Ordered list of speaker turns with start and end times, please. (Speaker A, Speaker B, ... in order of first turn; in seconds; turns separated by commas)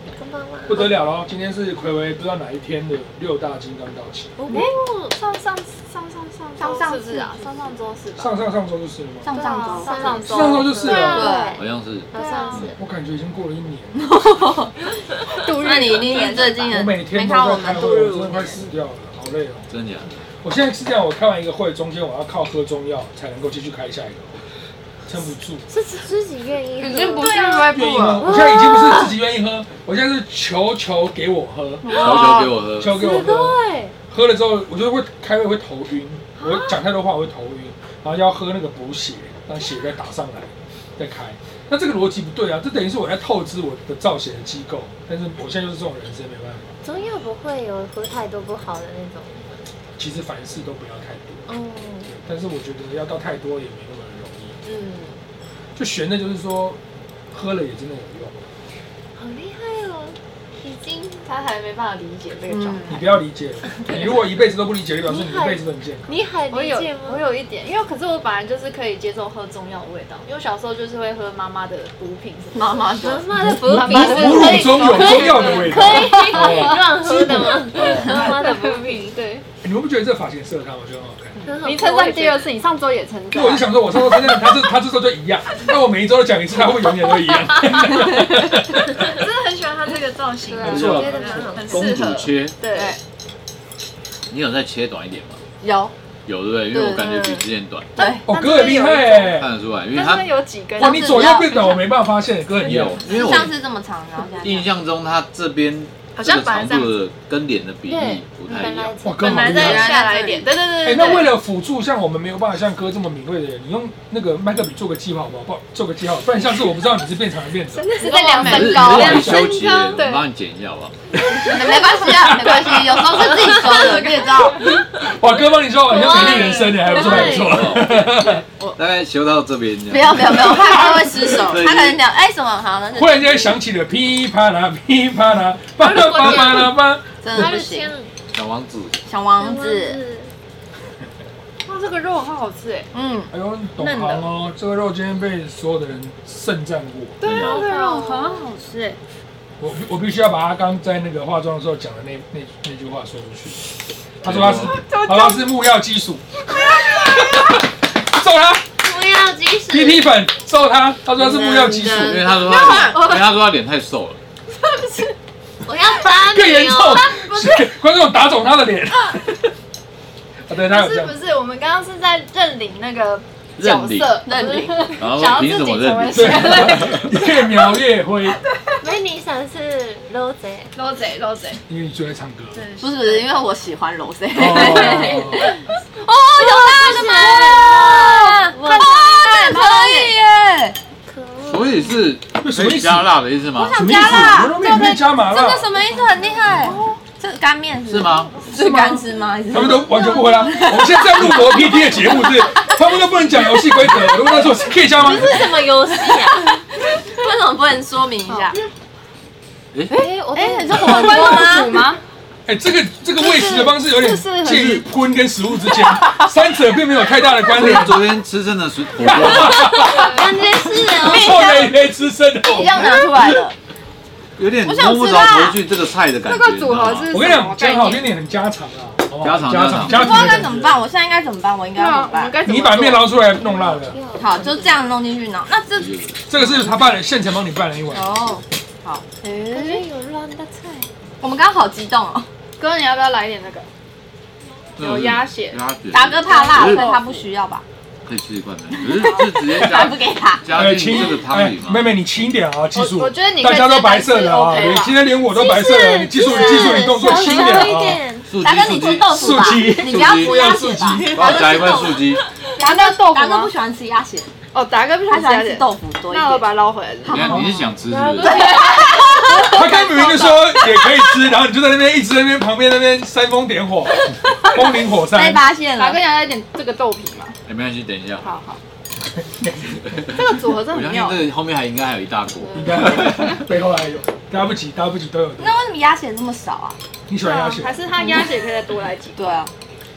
Speaker A: 0.1-0.9, Speaker B: 0.7-4.4, Speaker A: 4.4-5.2, Speaker C: 4.5-8.3, Speaker D: 6.6-7.5, Speaker B: 8.2-9.3, Speaker D: 9.2-11.6, Speaker C: 9.3-11.5, Speaker A: 9.3-12.8, Speaker B: 10.3-11.3, Speaker E: 11.6-12.7, Speaker C: 12.1-12.6, Speaker B: 12.8-14.2, Speaker D: 13.9-14.7, Speaker C: 15.4-16.7, Speaker A: 15.4-16.8, Speaker D: 15.4-18.0, Speaker B: 16.7-19.7, Speaker A: 17.8-18.6, Speaker E: 19.7-20.2, Speaker B: 20.4-24.4, Speaker B: 25.1-25.7, Speaker A: 25.7-29.1, Speaker C: 26.8-28.3, Speaker B: 27.7-31.9, Speaker D: 31.8-32.6, Speaker C: 31.9-32.2, Speaker E: 31.9-33.0, Speaker B: 32.8-46.7, Speaker A: 32.8-34.0, Speaker A: 36.4-36.8, Speaker A: 46.8-49.7, Speaker B: 50.0-51.5, Speaker A: 51.5-52.1, Speaker B: 52.1-54.6, Speaker A: 54.6-55.2, Speaker B: 55.8-58.4, Speaker A: 59.2-61.3, Speaker C: 61.2-63.1, Speaker D: 62.5-62.9, Speaker B: 62.9-66.1, Speaker A: 65.0-67.2, Speaker C: 66.5-76.8, Speaker D: 72.5-73.3, Speaker A: 73.0-79.2, Speaker B: 73.4-78.3, Speaker D: 73.9-75.1, Speaker C: 77.3-79.4, Speaker B: 79.6-81.4, Speaker C: 81.4-84.4, Speaker A: 81.4-82.5, Speaker B: 83.3-89.2, Speaker C: 88.9-93.0, Speaker A: 90.5-92.0, Speaker B: 90.6-92.0, Speaker E: 91.7-92.6, Speaker D: 92.7-93.0, Speaker E: 94.3-95.4, Speaker D: 95.6-95.9, Speaker E: 96.3-97.9, Speaker D: 96.7-98.3, Speaker C: 98.0-101.8, Speaker B: 98.3-99.5, Speaker E: 99.4-100.4, Speaker B: 100.8-103.0, Speaker D: 100.8-101.8, Speaker E: 102.6-103.6, Speaker D: 103.0-104.7, Speaker E: 104.4-108.9, Speaker C: 106.2-106.9, Speaker A: 107.9-109.7, Speaker D: 108.5-108.8, Speaker B: 109.0-109.9, Speaker C: 109.2-111.3, Speaker D: 109.5-110.5, Speaker B: 110.8-117.9, Speaker A: 117.8-118.2, Speaker C: 117.9-120.3, Speaker D: 118.0-119.5, Speaker E: 118.4-121.1, Speaker B: 118.6-119.5, Speaker D: 121.4-124.6, Speaker C: 121.8-124.6, Speaker B: 124.9-128.4, Speaker A: 125.9-127.7, Speaker C: 125.9-126.9, Speaker E: 127.0-132.0, Speaker D: 129.9-133.4, Speaker B: 132.9-137.2, Speaker A: 135.8-138.1, Speaker D: 137.2-137.9, Speaker E: 138.3-139.0, Speaker D: 139.1-140.0, Speaker A: 139.4-140.3, Speaker C: 141.6-142.9, Speaker D: 142.9-144.3, Speaker B: 143.3-147.2, Speaker C: 147.2-148.5, Speaker E: 147.2-147.6, Speaker A: 147.4-148.3, Speaker D: 147.5-149.0, Speaker B: 149.6-158.7, Speaker E: 154.2-154.8, Speaker C: 154.6-155.5, Speaker C: 156.5-157.6, Speaker A: 158.8-160.1, Speaker B: 159.7-162.3, Speaker D: 161.2-163.2, Speaker E: 161.9-164.2, Speaker C: 162.5-163.1, Speaker A: 162.5-162.9, Speaker C: 164.6-165.1, Speaker A: 165.7-167.3, Speaker B: 166.3-169.5, Speaker C: 167.1-167.7, Speaker B: 170.5-171.2, Speaker C: 170.5-177.8, Speaker E: 173.6-174.2, Speaker D: 174.2-174.9, Speaker E: 175.0-177.1, Speaker B: 176.1-178.4, Speaker C: 178.4-178.8, Speaker A: 178.8-180.8, Speaker C: 180.8-181.7, Speaker B: 181.7-182.6, Speaker C: 182.5-183.3, Speaker D: 182.8-190.8, Speaker B: 184.3-185.5, Speaker A: 184.6-185.4, Speaker A: 186.4-190.1, Speaker A: 191.1-191.9, Speaker E: 191.5-194.4, Speaker B: 192.4-193.2, Speaker D: 193.5-201.9, Speaker B: 193.7-195.7, Speaker A: 195.9-196.4, Speaker C: 196.5-197.0, Speaker E: 197.9-198.4, Speaker C: 198.6-199.0, Speaker B: 199.5-205.5, Speaker A: 204.9-206.7, Speaker D: 206.0-208.6, Speaker C: 208.3-208.6, Speaker A: 209.9-211.6, Speaker D: 209.9-211.9, Speaker C: 210.7-212.0, Speaker B: 212.5-218.2, Speaker C: 213.2-214.9, Speaker E: 217.5-219.8, Speaker B: 219.0-223.4, Speaker A: 219.4-221.5, Speaker C: 219.9-220.3, Speaker D: 220.9-221.8, Speaker D: 222.5-223.6, Speaker E: 224.4-227.2, Speaker C: 224.6-225.6, Speaker C: 226.2-228.1, Speaker B: 227.1-230.8, Speaker E: 229.2-230.4, Speaker D: 229.8-232.4, Speaker C: 231.7-233.2, Speaker B: 232.4-234.0, Speaker A: 233.4-235.0, Speaker D: 234.2-235.9, Speaker E: 235.8-236.3, Speaker B: 236.3-238.4, Speaker D: 237.9-239.8, Speaker A: 239.5-240.9, Speaker D: 241.2-242.3, Speaker C: 242.6-243.7, Speaker C: 244.8-245.6, Speaker E: 244.8-246.9, Speaker D: 245.9-247.7, Speaker C: 246.2-247.3, Speaker E: 248.1-251.9, Speaker D: 248.7-250.5, Speaker B: 250.5-258.0, Speaker C: 252.7-255.0, Speaker D: 254.5-254.8, Speaker A: 255.3-258.3, Speaker D: 256.1-257.8, Speaker E: 258.3-260.6, Speaker D: 258.4-262.0, Speaker B: 259.1-261.4, Speaker A: 261.0-262.4, Speaker E: 261.1-262.2, Speaker D: 262.6-264.3, Speaker C: 262.6-263.5, Speaker C: 264.5-267.5, Speaker D: 265.1-266.4, Speaker D: 267.1-267.6, Speaker E: 267.1-268.6, Speaker A: 267.8-269.5, Speaker D: 268.2-269.5, Speaker C: 268.5-270.9, Speaker B: 269.5-275.4, Speaker C: 274.2-274.7, Speaker D: 275.0-276.0, Speaker C: 275.7-277.4, Speaker E: 277.5-278.3, Speaker C: 278.2-278.6, Speaker C: 280.0-281.3, Speaker E: 280.5-283.3, Speaker B: 282.6-285.6, Speaker D: 285.4-286.8, Speaker B: 287.1-287.9, Speaker C: 287.1-289.4, Speaker D: 288.0-288.3, Speaker D: 289.2-289.5